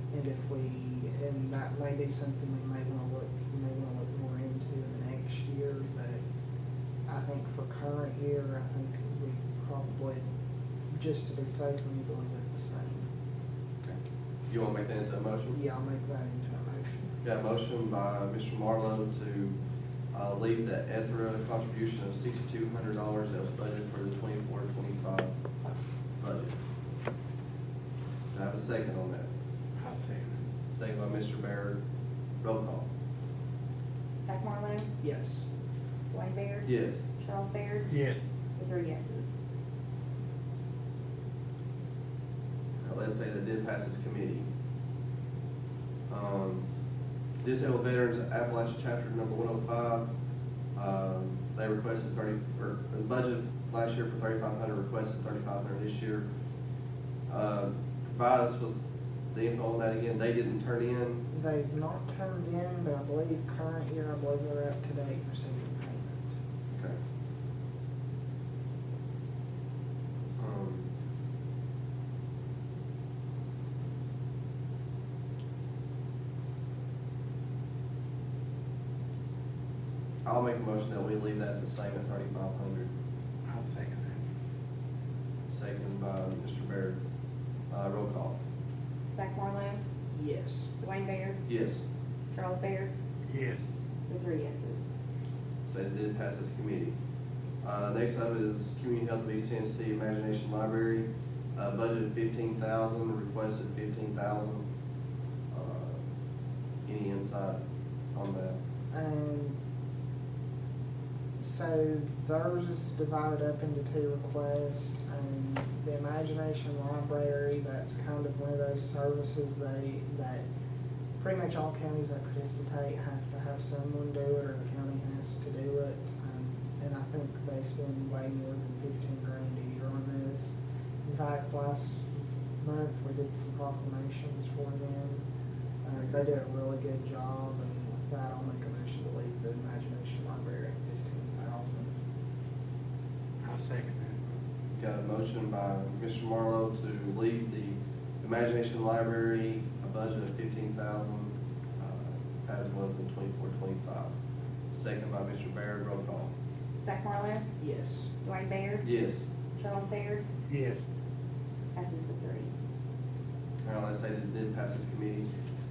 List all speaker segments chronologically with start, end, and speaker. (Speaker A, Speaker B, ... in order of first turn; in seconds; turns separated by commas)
Speaker A: 0.1-6.2, Speaker A: 7.0-10.2, Speaker A: 10.9-13.1, Speaker B: 14.5-15.6, Speaker A: 15.5-17.1, Speaker B: 17.2-19.6, Speaker B: 20.1-25.3, Speaker B: 26.2-26.5, Speaker B: 28.3-29.3, Speaker C: 29.8-30.4, Speaker B: 30.7-31.8, Speaker B: 32.4-32.9, Speaker D: 34.2-34.9, Speaker A: 35.0-35.4, Speaker D: 36.1-37.9, Speaker B: 36.6-37.0, Speaker C: 37.9-38.2, Speaker D: 38.6-39.4, Speaker B: 42.8-44.5, Speaker B: 46.1-46.6, Speaker B: 47.4-50.1, Speaker B: 50.8-56.2, Speaker B: 57.3-58.7, Speaker B: 59.3-61.2, Speaker A: 61.3-66.3, Speaker B: 66.7-67.0, Speaker B: 70.4-70.9, Speaker B: 80.2-82.9, Speaker C: 83.5-84.2, Speaker B: 85.5-87.0, Speaker B: 87.7-88.3, Speaker D: 89.1-89.8, Speaker A: 90.1-90.7, Speaker D: 90.8-91.4, Speaker B: 91.5-91.8, Speaker D: 92.3-92.9, Speaker C: 93.3-93.6, Speaker D: 94.1-94.8, Speaker B: 95.6-96.9, Speaker B: 97.6-104.6, Speaker B: 105.5-106.0, Speaker B: 106.8-107.6, Speaker B: 108.1-108.6, Speaker A: 108.9-109.5, Speaker A: 111.4-120.4, Speaker A: 121.2-132.1, Speaker A: 132.6-135.2, Speaker A: 135.8-141.9, Speaker C: 143.4-144.3, Speaker B: 144.7-154.1, Speaker B: 154.7-156.3, Speaker D: 156.8-157.5, Speaker A: 157.6-158.1, Speaker D: 158.2-158.8, Speaker B: 158.8-159.2, Speaker D: 159.6-160.2, Speaker C: 160.5-160.8, Speaker D: 161.7-162.5, Speaker B: 163.6-165.3